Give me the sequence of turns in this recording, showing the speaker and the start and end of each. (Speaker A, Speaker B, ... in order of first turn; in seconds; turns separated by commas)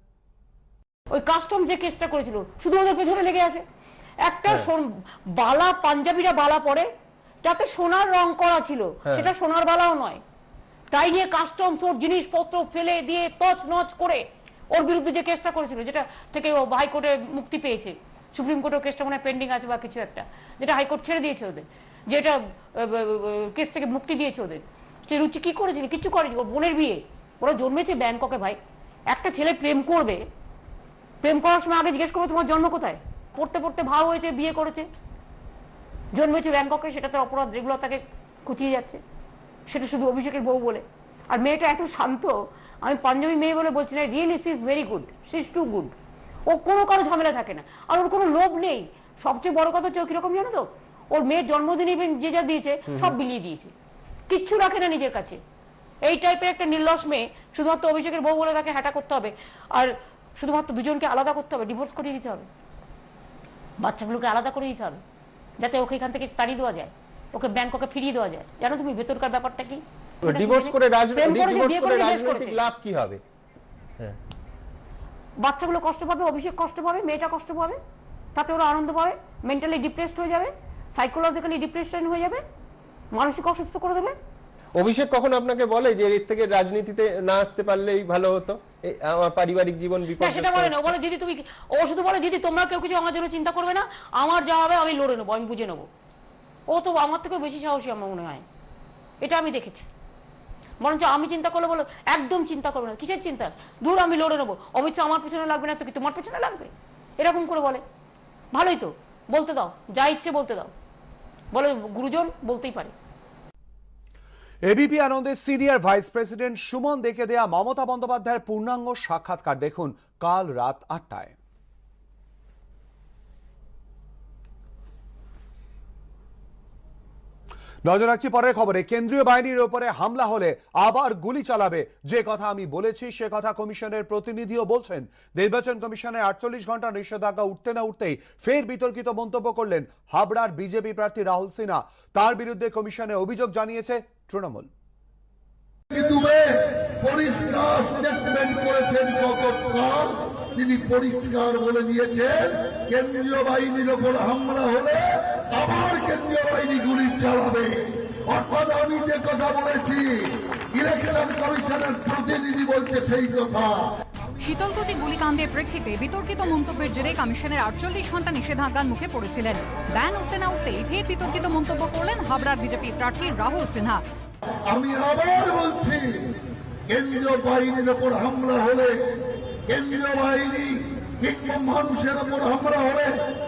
Speaker A: 1.1-3.6, Speaker A: 4.3-4.8, Speaker A: 5.4-6.9, Speaker A: 7.4-10.2, Speaker B: 9.1-9.3, Speaker A: 10.9-14.2, Speaker A: 14.7-28.6, Speaker A: 29.1-30.2, Speaker A: 31.2-34.8, Speaker A: 36.1-39.0, Speaker A: 39.7-45.9, Speaker A: 46.5-53.7, Speaker B: 52.9-53.1, Speaker A: 54.3-55.4, Speaker A: 56.0-62.5, Speaker A: 63.8-65.0, Speaker A: 65.6-72.6, Speaker B: 70.2-73.2, Speaker A: 75.4-77.8, Speaker A: 78.3-82.4, Speaker A: 83.1-84.2, Speaker B: 84.7-90.9, Speaker A: 90.2-95.9, Speaker A: 96.7-98.4, Speaker A: 99.2-99.8, Speaker A: 100.8-107.8, Speaker A: 108.5-110.7, Speaker A: 111.5-112.9, Speaker C: 114.7-121.3, Speaker C: 127.8-144.7, Speaker D: 145.9-163.9, Speaker E: 164.4-174.0, Speaker D: 174.7-179.0, Speaker D: 179.7-183.1